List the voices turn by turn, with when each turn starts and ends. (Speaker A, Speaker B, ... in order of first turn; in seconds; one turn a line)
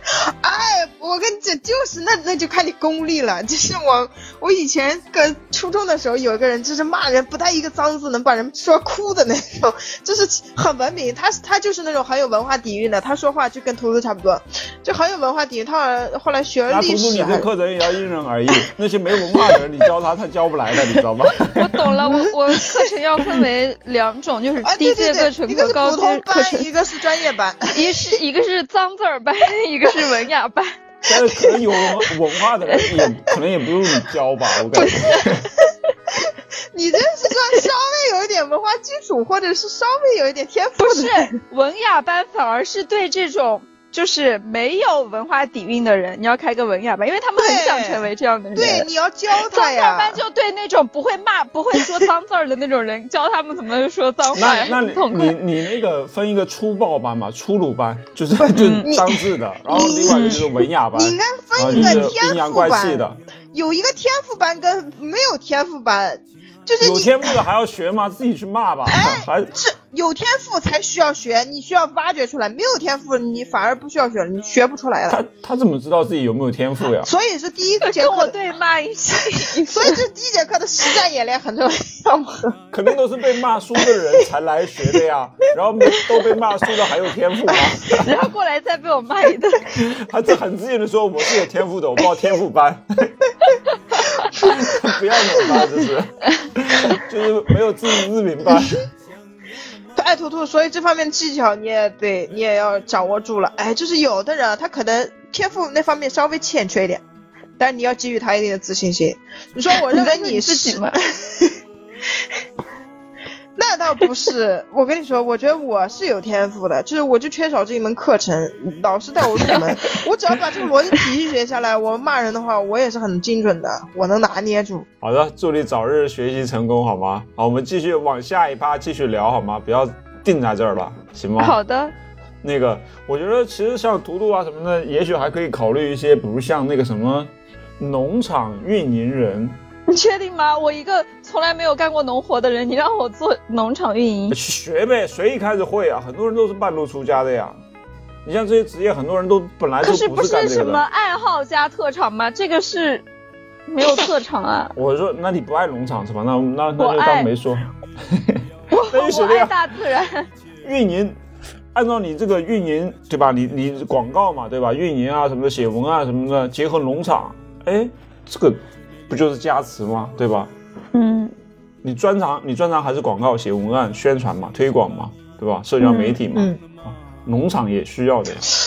Speaker A: 0.1-17.5
Speaker B: 16.7-21.7
Speaker C: 21.5-26.7
Speaker A: 24.6-27.7
Speaker C: 27.7-30.8
Speaker B: 31.1-35.5
Speaker A: 34.7-35.4
Speaker C: 34.8-35.2
Speaker A: 36.1-41.3
Speaker C: 40.8-48.9
Speaker A: 47.4-50.2
Speaker C: 49.4-55.4
Speaker B: 54.4-63.2
Speaker A: 58.4-67.4
Speaker C: 58.5-58.9
Speaker C: 60.1-60.4
Speaker B: 66.8-69.5
Speaker A: 68.9-75.2
Speaker B: 75.1-77.1
Speaker A: 77.0-78.3
Speaker C: 77.8-80.0
Speaker A: 79.6-82.6
Speaker B: 82.7-88.1
Speaker C: 88.0-89.7
Speaker B: 89.7-93.1
Speaker C: 93.4-94.3
Speaker B: 94.3-98.8
Speaker A: 100.0-107.0
Speaker A: 107.6-111.5
Speaker C: 109.8-111.0
Speaker A: 113.5-124.9
Speaker B: 125.0-131.6
Speaker C: 131.4-131.9
Speaker B: 132.4-139.6
Speaker C: 139.9-144.4
Speaker B: 144.3-147.6
Speaker B: 148.2-150.8
Speaker C: 149.8-153.1
Speaker C: 153.7-154.7
Speaker B: 154.7-159.6
Speaker C: 156.8-157.3
Speaker C: 158.7-160.3
Speaker B: 160.6-161.2
Speaker B: 161.7-170.5
Speaker C: 170.9-171.3
Speaker B: 171.8-178.5
Speaker C: 175.8-176.2
Speaker A: 176.3-176.6